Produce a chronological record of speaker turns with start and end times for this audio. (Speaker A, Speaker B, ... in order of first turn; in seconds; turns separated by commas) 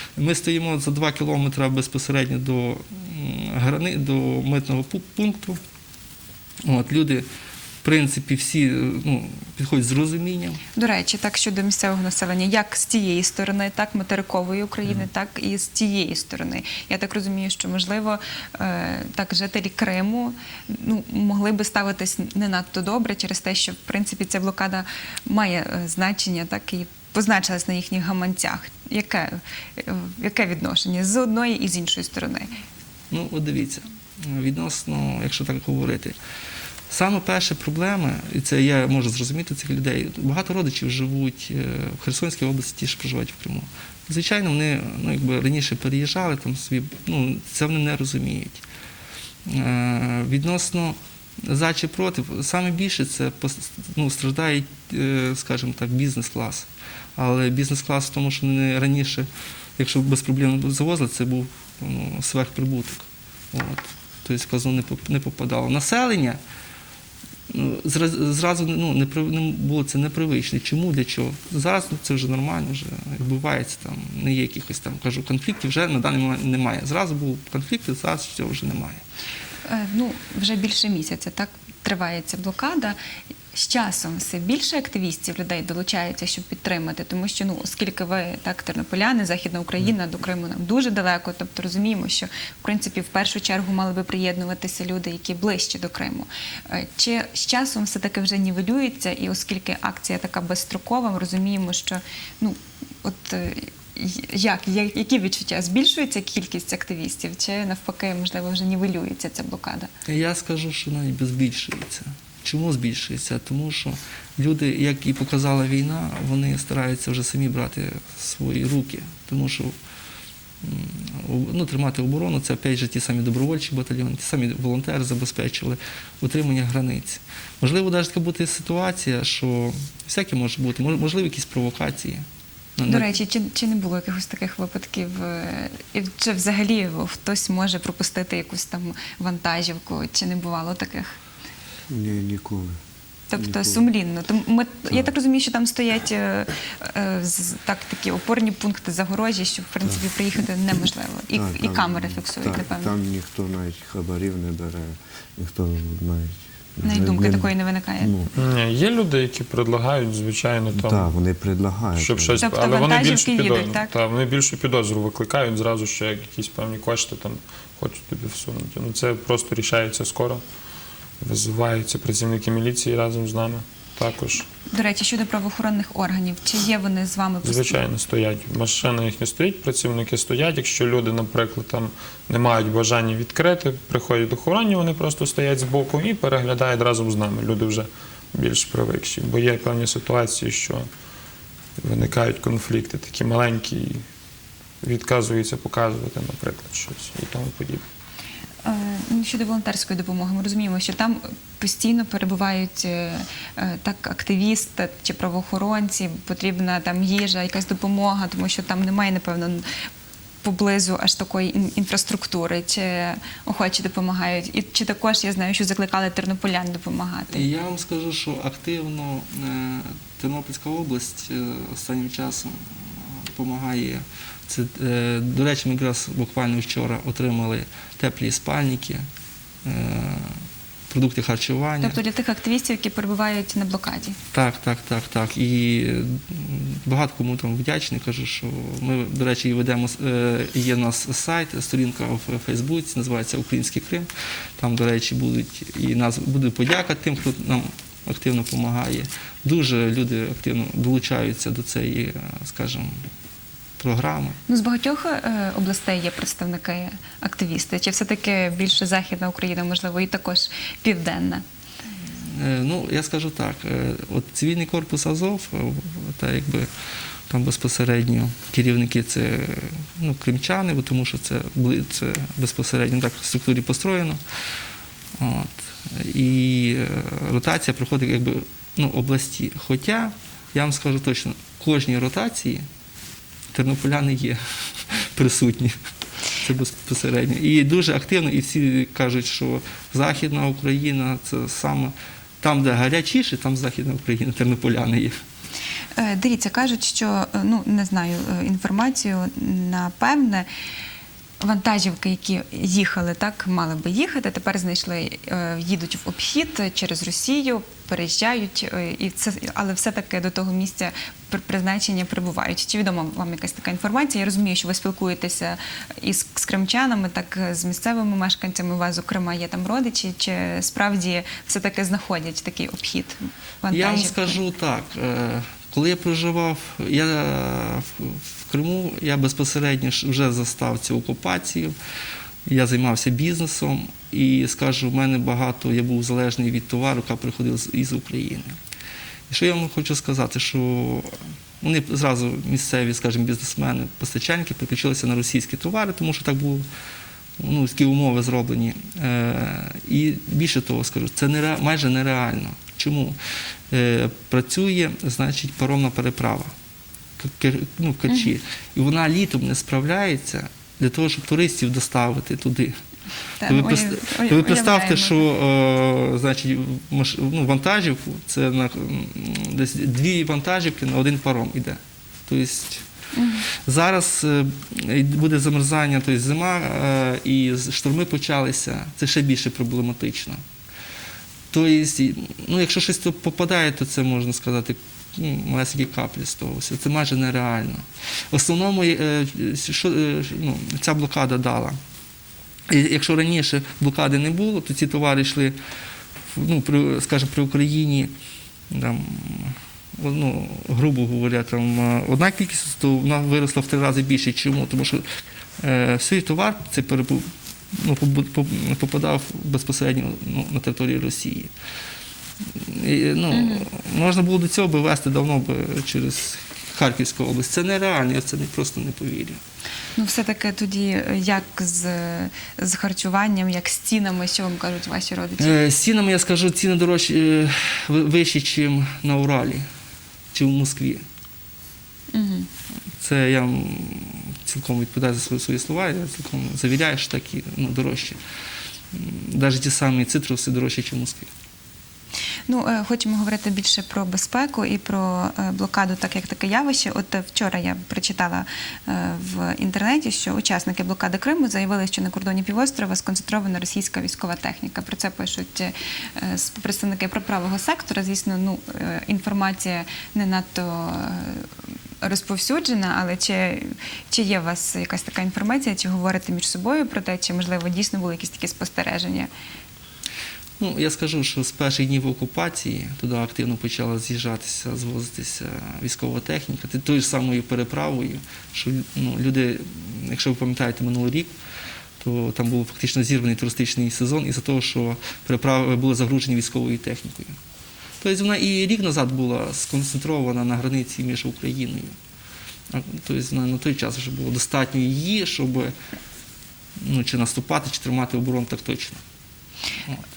Speaker A: 0.2-5.6, Speaker A: 6.6-7.2, Speaker A: 7.8-10.6, Speaker B: 10.7-32.5, Speaker A: 33.1-36.1, Speaker A: 36.9-48.6, Speaker A: 49.5-66.4, Speaker A: 67.5-79.0, Speaker B: 79.7-83.0, Speaker B: 83.5-109.9, Speaker A: 110.1-119.7, Speaker A: 120.6-132.2, Speaker A: 132.8-133.1, Speaker B: 132.8-141.2, Speaker C: 141.9-142.7, Speaker B: 143.3-152.9, Speaker C: 143.3-143.9, Speaker C: 151.3-158.3, Speaker B: 156.8-158.1, Speaker D: 158.3-161.1, Speaker C: 160.7-162.5, Speaker D: 161.9-170.4, Speaker B: 162.4-163.9, Speaker D: 171.2-174.5, Speaker B: 174.7-177.8, Speaker D: 177.4-190.9, Speaker D: 191.8-194.0, Speaker D: 194.8-197.8, Speaker B: 198.6-209.6, Speaker B: 210.4-217.5, Speaker A: 217.3-229.0, Speaker A: 229.6-232.0, Speaker B: 231.8-234.2, Speaker A: 234.3-253.0, Speaker A: 253.8-254.4, Speaker B: 254.5-261.4, Speaker A: 262.2-266.7, Speaker A: 267.3-274.2, Speaker A: 275.2-282.6, Speaker A: 283.5-285.7, Speaker A: 286.3-295.1, Speaker B: 295.9-300.5, Speaker B: 301.4-324.4, Speaker A: 323.7-331.7, Speaker A: 332.4-338.6, Speaker A: 339.3-346.6, Speaker A: 347.4-353.2, Speaker A: 353.7-356.5, Speaker A: 357.2-362.7, Speaker B: 358.1-358.4, Speaker B: 363.4-365.3, Speaker A: 363.5-372.8, Speaker B: 373.1-373.5, Speaker A: 373.6-380.4, Speaker A: 381.5-391.8, Speaker A: 392.7-395.6, Speaker A: 396.3-398.1, Speaker A: 398.7-405.0, Speaker A: 405.6-411.5, Speaker A: 412.5-419.4, Speaker B: 413.3-413.7, Speaker B: 419.9-425.6, Speaker A: 425.4-429.6, Speaker A: 430.3-431.0, Speaker B: 432.1-432.5, Speaker A: 433.0-438.2, Speaker A: 438.9-441.3, Speaker B: 442.5-461.5, Speaker B: 462.0-469.3, Speaker A: 470.6-481.3, Speaker A: 482.0-487.4, Speaker A: 488.0-491.9, Speaker A: 492.7-495.7, Speaker A: 496.8-499.0